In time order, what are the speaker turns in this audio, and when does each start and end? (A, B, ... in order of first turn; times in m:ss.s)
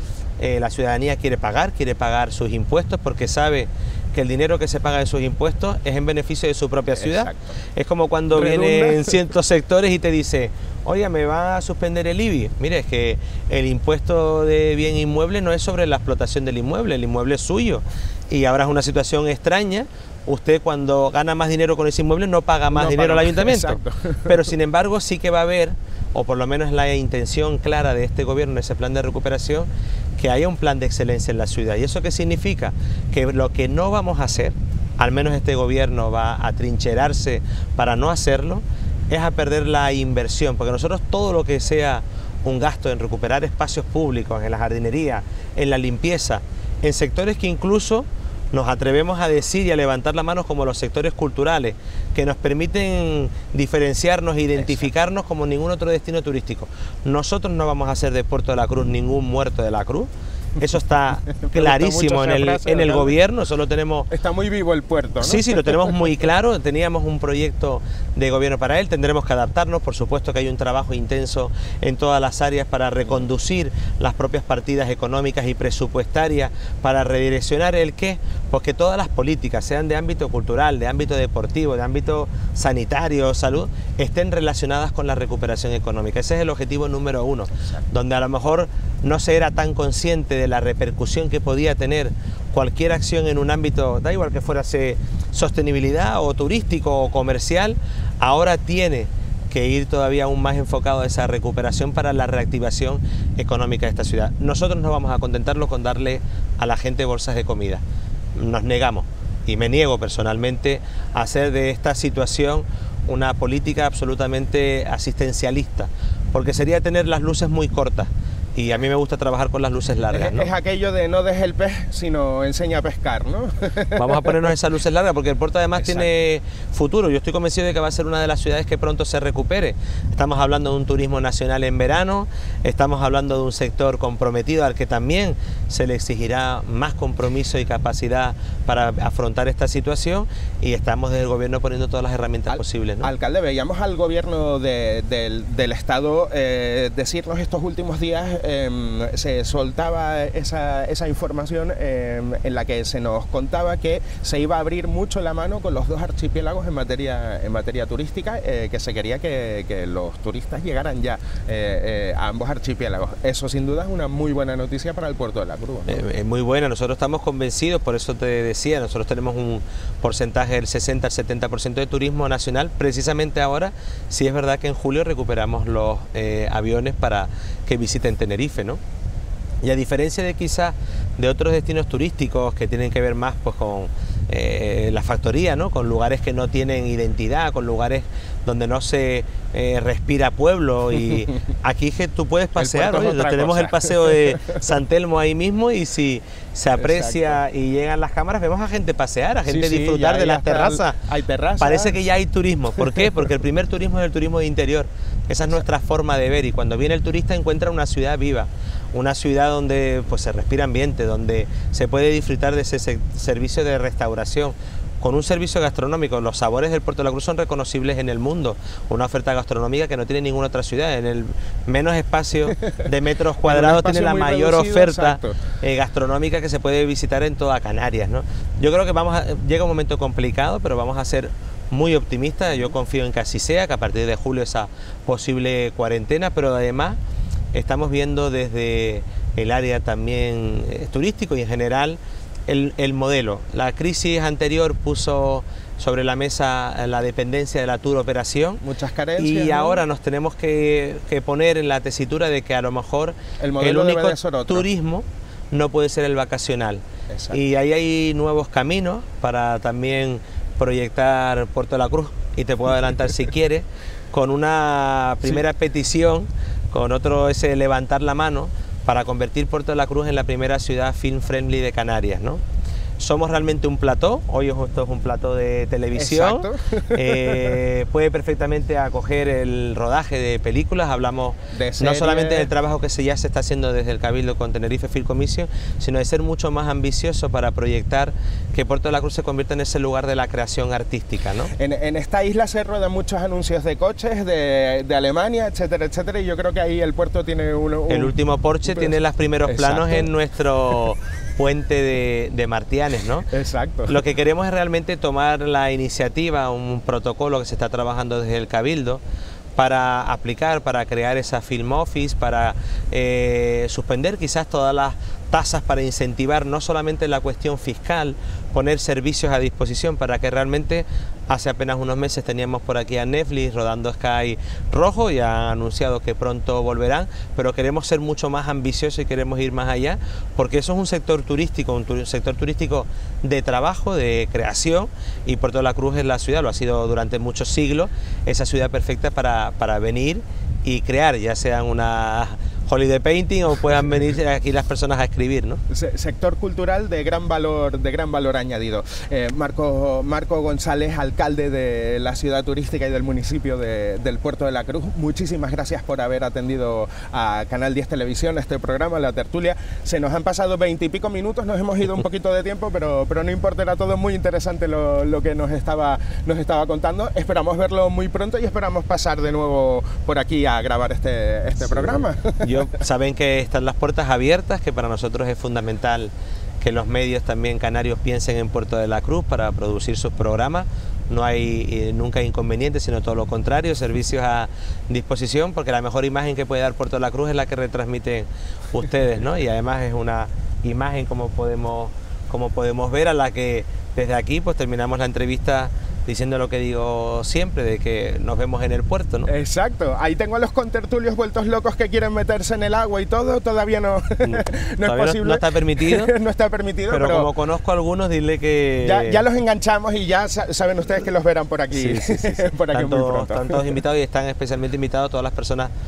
0:00.4-1:04.1 A
0:07.0-0:07.5 B
0:08.3-0:09.2 B
0:22.7-0:24.4 B
1:01.4-1:03.2 B
1:04.1-1:06.0 B
1:05.2-1:47.8 A
1:48.4-2:00.5 A
2:00.1-2:04.5 B
2:03.9-2:23.1 A
2:22.5-2:46.0 B
2:45.9-2:58.8 A
2:59.6-3:21.0 A
3:12.6-3:14.6 B
3:16.8-3:17.4 B
3:19.5-3:22.0 B
3:21.6-3:57.0 A
3:43.4-3:45.4 B
3:57.5-4:08.6 A
4:08.6-4:09.8 B
4:09.2-4:32.4 A
4:13.4-4:14.6 B
4:17.1-4:17.4 B
4:33.0-4:51.5 A
4:36.0-4:37.6 B
4:41.5-4:42.5 B
4:51.6-4:58.2 B
4:57.9-5:03.3 A
4:58.7-4:58.9 B
4:59.5-5:00.1 B
5:03.3-5:04.0 B
5:03.9-5:09.0 A
5:09.6-5:45.6 A
5:45.7-6:12.7 B
6:11.7-6:39.3 A
6:39.3-6:47.3 B
6:44.2-6:46.1 A
6:46.9-6:49.2 A
6:48.8-6:53.8 B
6:51.7-6:55.7 A